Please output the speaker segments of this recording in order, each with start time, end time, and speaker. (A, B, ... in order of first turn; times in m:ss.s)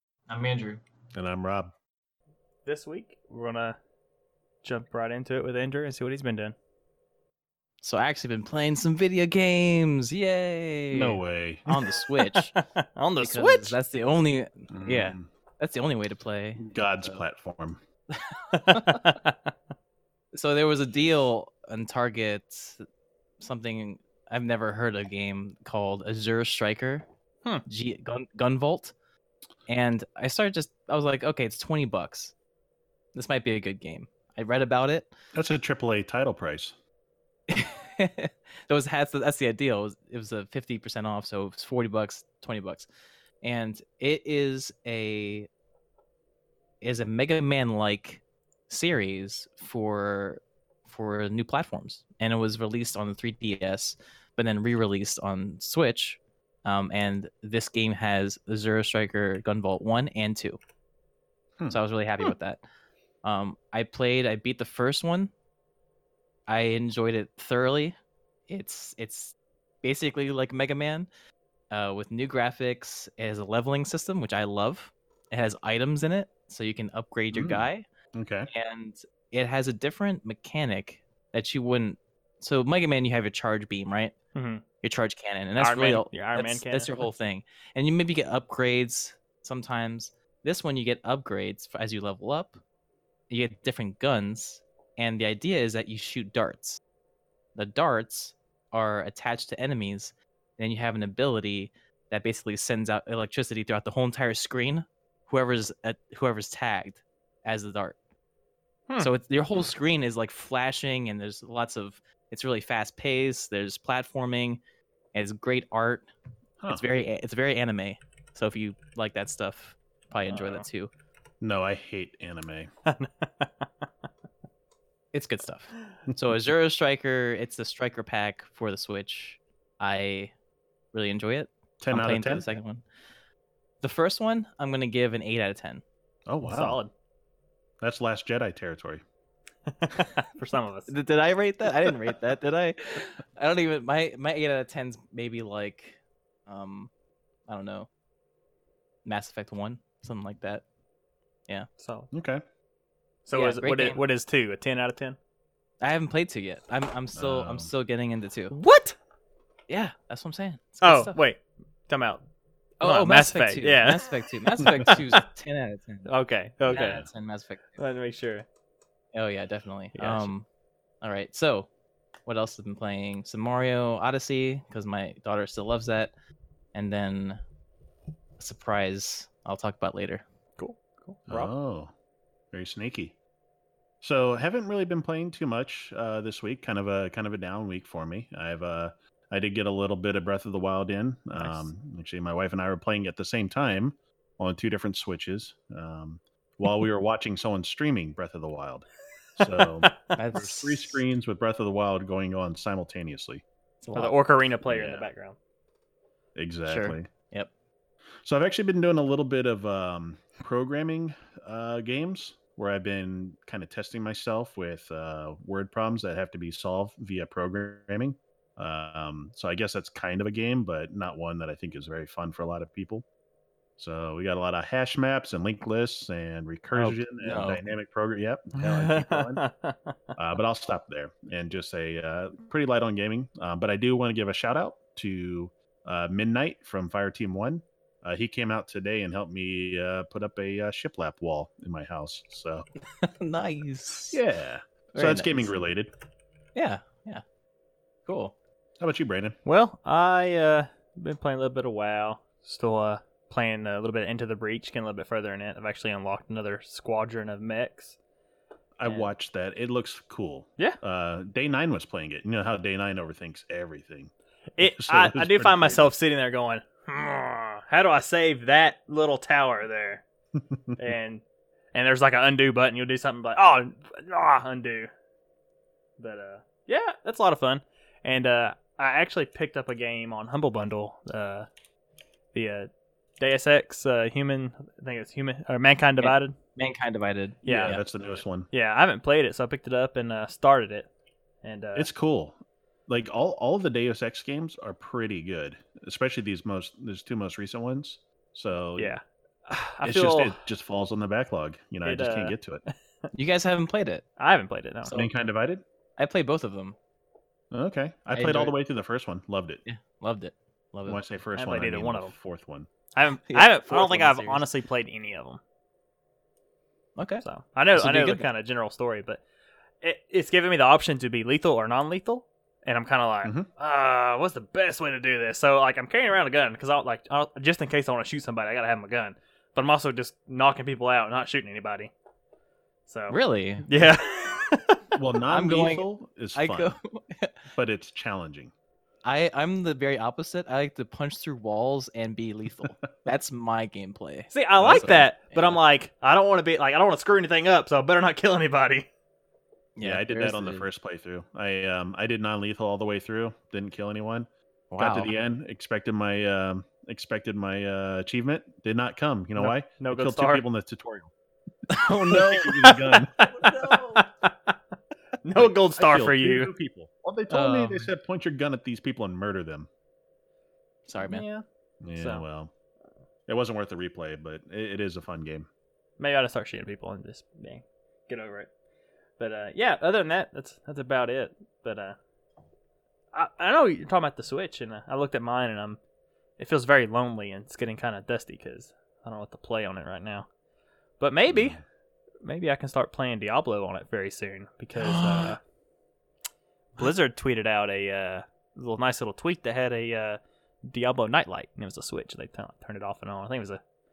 0:00.3-0:00.8 A
0:01.1-0:01.7 B
0:02.6-0:03.8 C
0:04.6-0:06.5 C
0:07.8-0:12.5 A
0:10.9-0:11.9 B
0:12.5-0:13.8 C
0:13.2-0:17.2 A
0:14.7-0:15.3 B
0:16.6-0:17.8 B
0:18.1-0:19.1 A
0:18.5-0:19.5 C
0:20.3-0:22.8 A
0:23.4-0:27.0 A
0:27.6-0:28.9 A
0:29.7-0:32.3 A
0:33.1-0:35.1 A
0:35.3-0:36.7 B
0:37.5-0:42.9 A
0:43.4-0:45.5 A
0:46.8-1:00.6 A
1:01.7-1:02.6 A
1:03.2-1:05.3 A
1:06.5-1:08.0 A
1:08.5-1:11.1 A
1:11.7-1:17.8 A
1:17.3-1:18.5 B
1:18.5-1:24.1 A
1:24.3-1:24.6 C
1:24.8-1:32.6 A
1:25.6-1:27.0 C
1:33.3-1:36.8 A
1:37.5-1:48.0 A
1:49.0-1:54.6 A
1:55.1-1:56.1 A
1:56.7-2:00.9 A
2:00.3-2:00.6 C
2:01.4-2:02.7 B
2:02.8-2:03.8 C
2:05.1-2:10.3 A
2:10.9-2:12.8 A
2:11.8-2:12.5 B
2:13.8-2:15.8 A
2:16.3-2:16.8 B
2:16.4-2:16.9 C
2:17.8-2:19.0 B
2:19.7-2:20.9 C
2:20.9-2:26.9 A
2:27.5-2:27.9 A
2:29.0-2:30.6 A
2:31.8-2:32.1 C
2:32.1-2:32.4 B
2:33.2-2:35.2 C
2:33.3-2:34.0 A
2:35.8-2:38.5 A
2:37.1-2:37.7 B
2:38.5-2:39.0 C
2:39.7-2:41.2 A
2:40.8-2:42.2 C
2:42.8-2:46.1 A
2:42.8-2:44.1 C
2:46.0-2:47.0 C
2:46.6-2:47.8 A
2:47.8-2:48.4 C
2:49.1-2:50.4 A
2:49.9-2:50.3 C
2:51.0-2:51.7 A
2:52.2-2:56.1 A
2:56.7-2:57.4 A
2:58.4-3:00.2 A
3:00.6-3:01.5 C
3:01.3-3:01.9 B
3:02.5-3:03.1 B
3:04.0-3:23.4 B
3:20.1-3:21.0 A
3:23.8-3:24.2 A
3:23.9-3:25.4 C
3:24.6-3:25.1 B
3:26.4-3:27.1 B
3:26.6-3:27.5 A
3:28.2-3:43.0 B
3:43.8-3:49.4 B
3:47.2-3:47.6 A
3:48.6-3:50.0 C
3:50.2-4:02.6 B
4:03.0-4:04.2 A
4:04.1-4:05.9 B
4:04.9-4:05.5 A
4:06.5-4:07.2 A
4:08.0-4:08.3 A
4:08.8-4:09.4 B
4:09.4-4:18.0 C
4:18.8-4:25.9 B
4:24.6-4:30.0 C
4:30.5-4:30.8 B
4:30.8-4:34.9 C
4:36.0-4:41.5 C
4:42.3-4:42.7 C
4:43.2-4:46.3 C
4:46.0-4:47.8 A
4:47.4-4:47.7 C
4:47.4-4:48.5 B
4:48.5-4:50.9 C
4:51.4-4:51.9 C
4:51.8-4:58.9 B
4:58.8-5:00.4 C
4:59.8-5:02.6 B
5:01.8-5:02.3 C
5:03.1-5:04.0 A
5:04.2-5:04.9 C
5:04.8-5:05.1 A
5:04.9-5:05.6 B
5:06.0-5:06.8 A
5:07.5-5:09.6 B
5:08.1-5:08.5 A
5:09.6-5:11.0 A
5:10.8-5:12.7 B
5:11.4-5:12.1 C
5:12.9-5:15.4 C
5:13.3-5:14.4 A
5:17.0-5:18.3 A
5:17.2-5:19.2 C
5:19.8-5:31.9 C
5:32.9-5:34.8 C
5:33.1-5:33.7 A
5:34.9-5:36.7 B
5:35.3-5:37.3 A
5:37.5-5:38.5 B
5:39.0-5:45.6 A
5:44.3-5:48.9 C
5:44.6-5:44.9 B
5:49.8-5:50.6 A
5:49.8-6:01.1 B
5:54.7-5:55.1 A
5:59.8-6:00.4 C
6:01.7-6:02.8 A
6:01.8-6:04.1 B
6:03.2-6:04.5 C
6:05.2-6:06.5 C
6:05.4-6:09.7 B
6:07.3-6:07.9 A
6:10.9-6:11.2 A
6:11.0-6:11.4 C
6:11.8-6:12.5 B
6:12.0-6:12.2 C
6:13.3-6:15.5 B
6:16.0-6:18.5 C
6:19.2-6:22.0 C
6:23.1-6:25.8 C
6:26.4-6:30.3 C
6:31.0-6:31.6 C
6:31.3-6:31.6 B
6:32.2-6:35.4 C
6:34.8-6:35.4 A
6:36.8-6:43.6 C